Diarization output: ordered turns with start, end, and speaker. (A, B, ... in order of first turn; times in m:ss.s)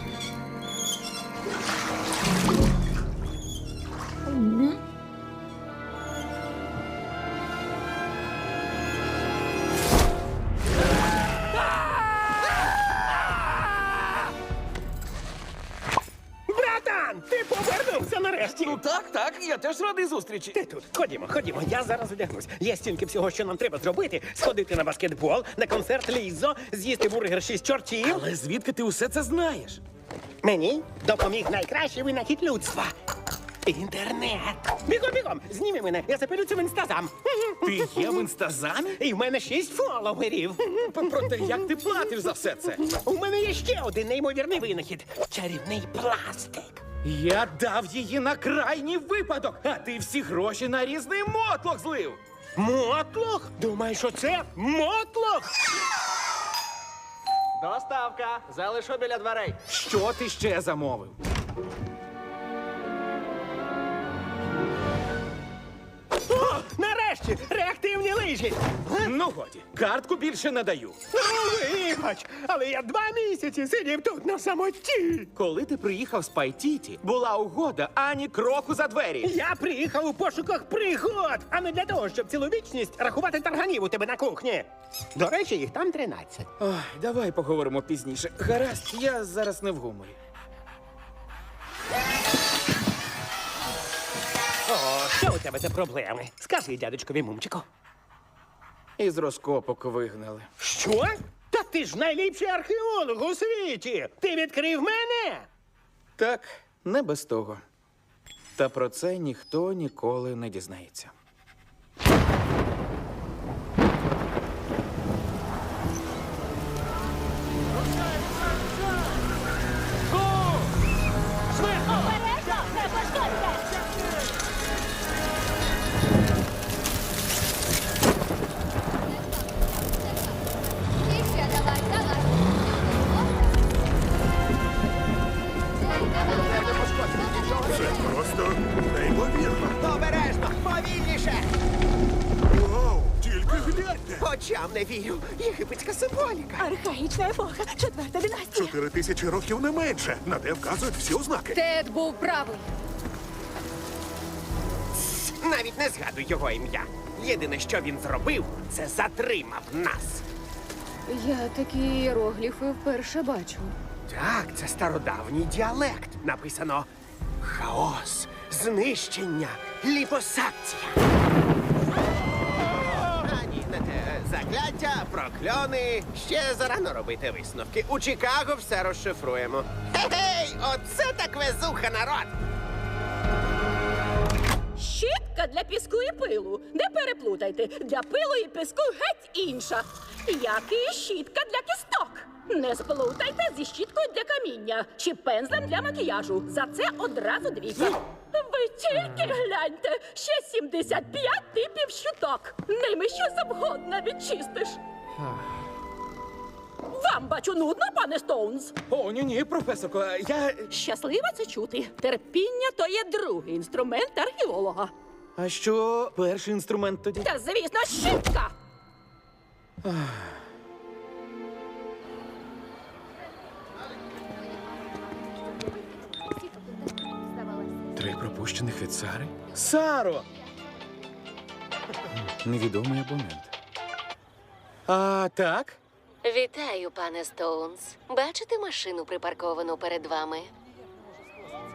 0:16.5-0:18.8 A
0:18.4-0:20.6 B
0:20.5-0:28.2 A
0:28.0-0:29.8 B
0:30.4-0:32.9 A
0:33.6-0:38.2 A
0:37.6-0:39.0 B
0:39.0-0:41.3 A
0:40.8-0:42.8 B
0:42.8-0:46.8 A
0:47.0-0:52.2 B
0:52.6-0:55.6 A
0:57.6-0:59.6 C
0:59.7-1:01.2 B
1:06.3-1:09.1 A
1:09.0-1:11.0 B
1:11.1-1:15.3 A
1:15.4-1:19.3 B
1:19.2-1:26.5 A
1:26.6-1:30.2 B
1:34.6-1:37.6 A
1:39.0-1:40.5 B
1:40.6-1:45.5 A
1:46.2-1:47.6 B
1:48.6-1:51.1 B
2:01.7-2:03.7 D
2:16.2-2:17.6 E
2:17.6-2:19.7 F
2:19.7-2:21.5 E
2:22.5-2:24.2 F
2:24.1-2:26.7 E
2:26.6-2:28.7 D
2:28.5-2:31.6 F
2:32.1-2:32.5 G
2:35.2-2:40.2 E
2:41.1-2:43.7 G
2:44.1-2:46.9 E
2:47.4-2:51.0 E
2:53.0-3:02.3 E
3:04.7-3:24.8 D
3:26.9-3:28.8 D
3:28.9-3:30.7 B
3:30.7-3:34.9 D
3:35.4-3:37.3 B
3:37.2-3:38.5 D
3:39.8-3:40.4 B
3:47.9-3:50.3 B
3:52.1-3:53.5 B
3:54.9-3:55.8 B
3:56.2-4:00.5 H